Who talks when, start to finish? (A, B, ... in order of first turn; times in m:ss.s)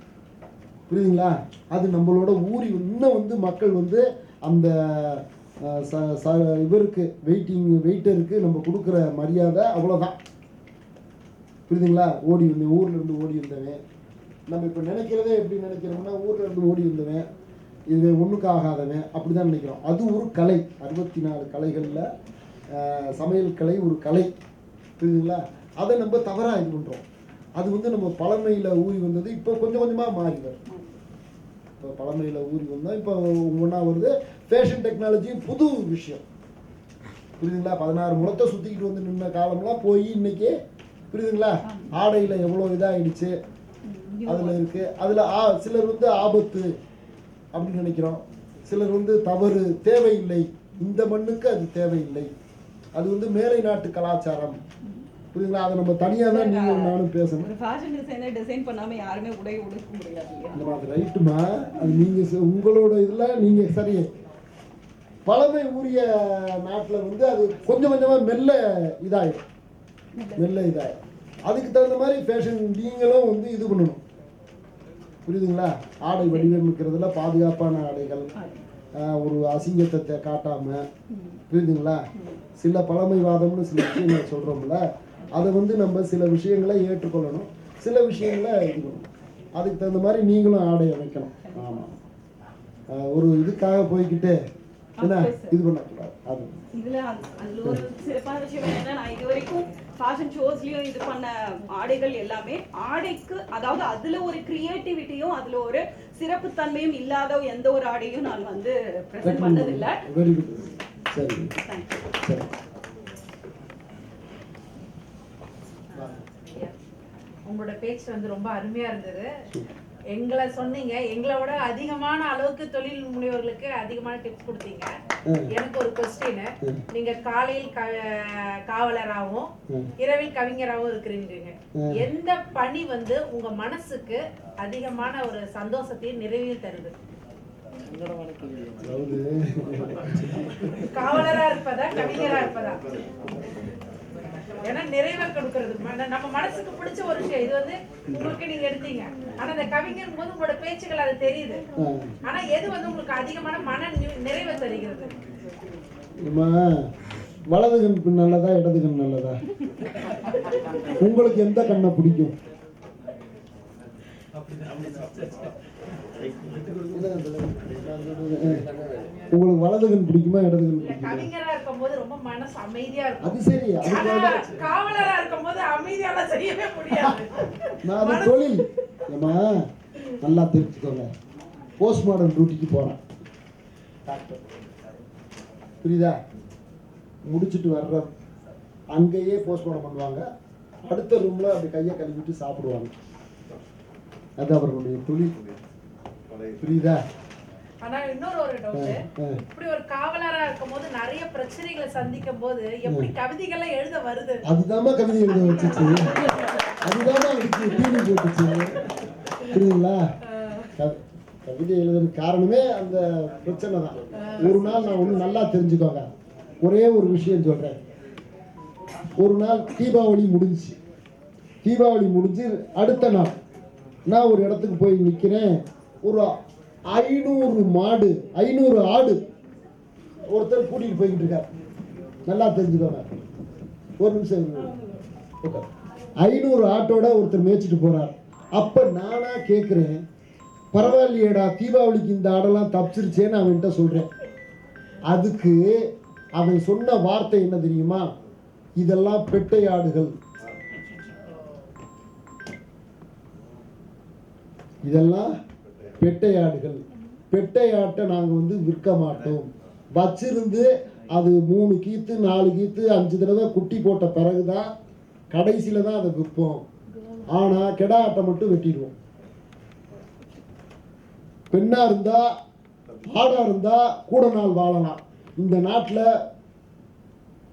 0:00.9-0:10.2 A
0:11.7-0:13.8 A
0:14.5-0:17.2 A
0:17.9-0:22.1 A
0:22.8-0:24.3 A
0:25.0-0:27.0 A
0:27.6-0:30.6 A
0:30.7-0:31.0 B
0:31.8-0:36.2 A
0:37.4-0:40.5 A
0:41.1-0:43.3 A
0:41.6-0:41.9 B
0:43.8-0:44.6 B
0:44.3-0:46.7 A
0:47.5-0:52.3 A
0:53.0-0:54.6 A
0:55.3-0:57.5 A
0:56.2-1:00.6 B
1:00.5-1:04.1 A
1:05.3-1:09.4 A
1:10.2-1:10.5 B
1:10.4-1:10.9 A
1:11.5-1:14.0 A
1:15.3-1:18.3 A
1:19.0-1:20.8 A
1:21.1-1:21.4 B
1:21.5-1:22.0 A
1:22.6-1:24.8 A
1:25.4-1:31.9 A
1:31.5-1:31.9 B
1:32.9-1:34.4 A
1:35.0-1:35.6 B
1:35.0-1:36.5 A
1:36.7-1:50.0 B
1:49.2-1:51.5 A
1:51.6-1:52.0 B
1:52.2-1:52.5 A
1:56.5-1:56.7 C
1:57.5-1:59.3 C
2:00.2-2:04.9 C
2:05.5-2:09.5 C
2:10.0-2:16.9 C
2:11.8-2:12.1 A
2:18.8-2:20.9 A
2:20.9-2:22.8 C
2:24.6-2:31.6 C
2:32.2-2:35.1 C
2:36.3-2:36.8 A
2:37.5-2:39.4 A
2:41.0-2:42.4 A
2:46.9-2:48.6 A
2:49.3-2:51.3 A
2:50.8-2:53.3 C
2:53.2-2:54.4 A
2:53.8-2:58.6 C
2:57.8-2:59.6 A
3:00.2-3:01.1 A
3:01.8-3:03.0 A
3:04.1-3:04.4 A
3:05.8-3:06.2 A
3:07.3-3:08.1 A
3:08.9-3:10.2 A
3:10.9-3:12.9 A
3:14.4-3:15.3 A
3:16.6-3:17.0 A
3:17.8-3:24.4 C
3:18.7-3:19.4 A
3:22.9-3:23.1 A
3:24.5-3:26.1 A
3:25.4-3:26.4 C
3:26.8-3:28.8 A
3:29.5-3:30.0 A
3:30.3-3:30.7 C
3:30.8-3:36.1 A
3:34.2-3:34.6 C
3:36.6-3:37.8 A
3:39.2-3:40.8 A
3:41.6-3:43.4 A
3:44.1-3:45.5 A
3:46.0-3:46.3 A
3:46.9-3:49.2 A
3:50.3-3:51.5 A
3:52.3-3:53.1 A
3:54.0-3:54.8 A
3:56.2-4:00.0 A
4:00.7-4:04.1 A
4:05.1-4:05.6 A
4:06.4-4:08.1 A
4:08.8-4:10.1 A
4:14.8-4:15.3 A
4:16.0-4:24.7 A
4:25.3-4:26.6 A
4:27.3-4:28.9 A
4:31.5-4:32.3 A
4:33.1-4:36.1 A